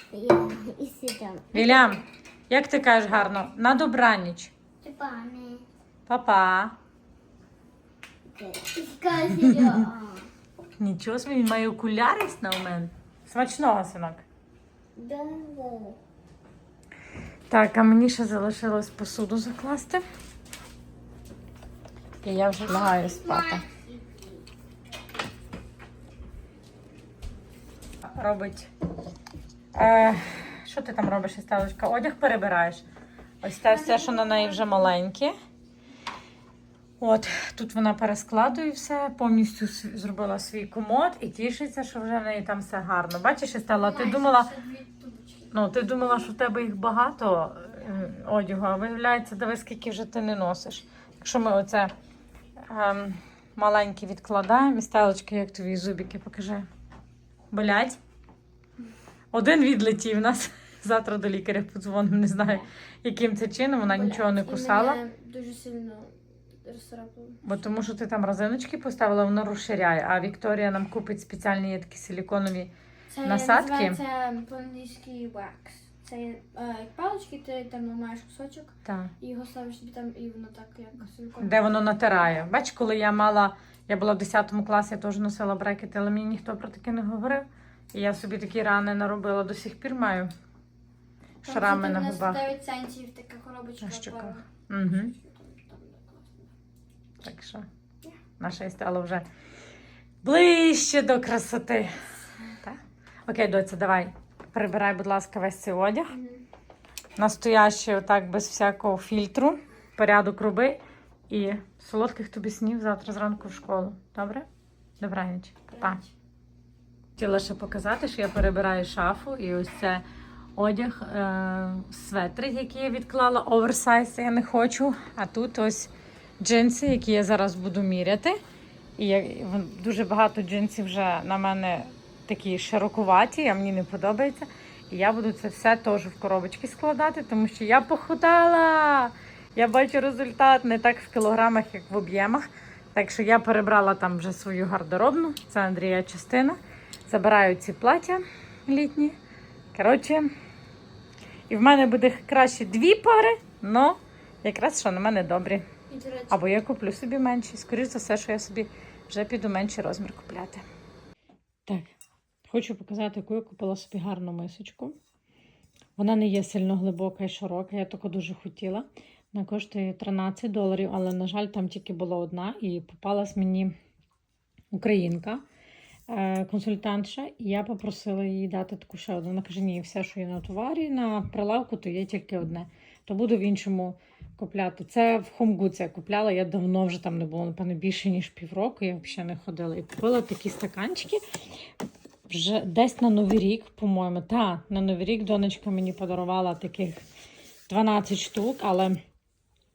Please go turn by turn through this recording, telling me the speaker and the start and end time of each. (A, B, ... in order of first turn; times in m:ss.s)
0:00.1-0:02.0 A
0:01.5-0:04.5 B
0:04.8-0:05.6 A
0:06.1-0:06.8 B
0:08.3-0:10.3 A
0:09.3-0:09.6 B
0:10.8-0:14.2 B
0:15.0-0:16.0 A
0:17.5-0:20.0 B
0:22.2-0:23.6 B
0:22.6-0:24.4 A
0:28.0-0:28.7 B
0:29.8-0:32.8 B
0:33.4-0:35.3 B
0:33.7-0:34.9 C
0:37.0-0:44.5 B
0:43.8-0:45.9 C
0:45.5-0:51.9 B
0:52.7-0:56.7 B
0:57.5-0:58.0 B
0:59.3-1:05.0 B
1:03.9-1:07.4 C
1:07.4-1:12.7 B
1:13.1-1:22.1 C
1:13.2-1:14.0 B
1:18.9-1:19.1 B
1:21.4-1:30.3 B
1:31.4-1:34.4 C
1:31.4-1:32.4 B
1:33.8-1:35.1 B
1:35.0-1:36.0 C
1:37.2-1:37.7 B
1:38.4-1:39.3 B
1:40.2-1:46.2 B
1:46.1-1:46.4 C
1:47.2-1:54.5 B
1:55.0-1:56.0 B
1:55.7-1:56.1 C
1:57.2-2:00.0 B
2:00.6-2:08.4 B
2:09.0-2:29.2 B
2:29.7-2:30.3 B
2:31.5-2:35.6 B
2:35.9-2:36.4 C
2:36.3-2:40.6 B
2:42.5-2:44.9 B
2:46.0-2:53.7 B
2:54.7-2:55.4 B
2:56.1-3:11.2 B
3:12.3-3:17.0 B
3:17.7-3:19.0 B